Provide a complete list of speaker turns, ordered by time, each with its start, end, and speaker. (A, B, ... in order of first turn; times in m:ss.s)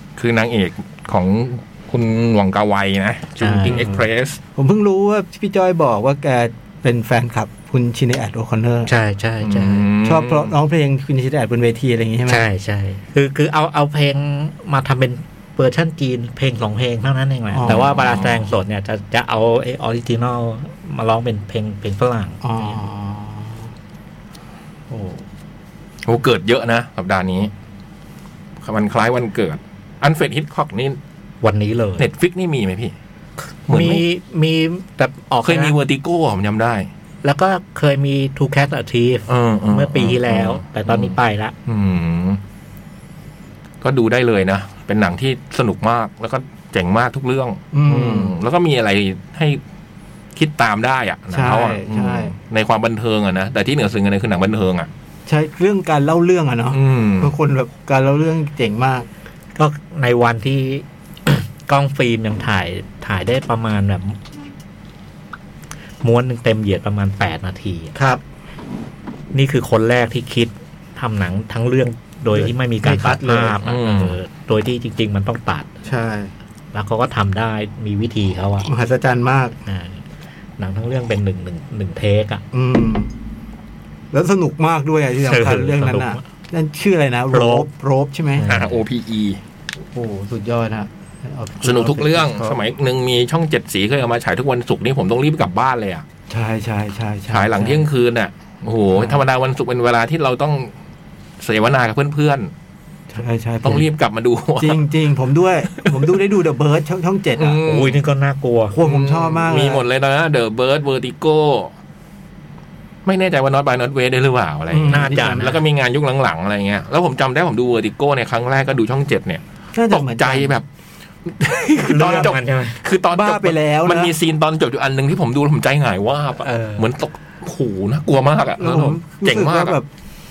0:00.2-0:04.4 A
0:03.4-0:03.9 B
0:03.7-0:04.0 C
0:04.6-0:08.9 C
0:08.9-0:09.9 B
0:09.4-0:10.5 A
0:10.0-0:12.4 C
0:12.3-0:22.8 B
0:17.5-0:17.9 C
0:17.6-0:18.5 A
0:22.4-0:23.7 C
0:24.9-0:25.2 C
0:26.0-0:27.5 A
0:28.6-0:31.0 A
0:31.4-0:32.1 B
0:32.0-0:32.9 A
0:33.7-0:35.7 B
0:33.7-0:34.0 A
0:35.4-0:36.9 A
0:37.2-0:41.5 B
0:39.3-0:42.4 A
0:43.8-0:49.6 A
0:47.7-0:48.3 C
0:50.3-0:54.9 A
0:51.3-0:52.3 C
0:55.3-0:59.1 C
0:56.7-0:57.3 A
0:59.6-1:04.2 B
1:06.0-1:07.9 B
1:08.0-1:08.2 C
1:09.3-1:15.7 B
1:12.3-1:13.6 C
1:13.6-1:14.2 A
1:15.8-1:16.3 C
1:16.7-1:18.7 B
1:18.6-1:19.6 C
1:19.6-1:20.0 B
1:20.6-1:22.4 B
1:22.5-1:23.1 C
1:24.1-1:28.5 C
1:25.2-1:26.2 B
1:27.3-1:27.7 B
1:28.3-1:28.8 B
1:28.5-1:29.4 A
1:29.9-1:32.6 C
1:31.6-1:36.0 A
1:36.3-1:37.8 C
1:37.3-1:40.7 A
1:38.9-1:39.2 C
1:41.4-1:42.5 A
1:43.1-1:43.8 C
1:43.6-1:44.8 A
1:44.6-1:47.6 C
1:45.8-1:46.1 A
1:47.4-1:48.0 A
1:47.6-1:48.8 B
1:48.7-1:49.8 C
1:48.8-1:51.7 A
1:53.0-2:00.6 A
1:54.7-1:55.6 C
1:54.9-1:55.6 B
1:59.7-2:00.5 C
2:01.2-2:09.8 A
2:01.8-2:02.8 B
2:02.0-2:02.3 C
2:03.1-2:04.1 C
2:06.4-2:06.8 B
2:08.6-2:09.8 C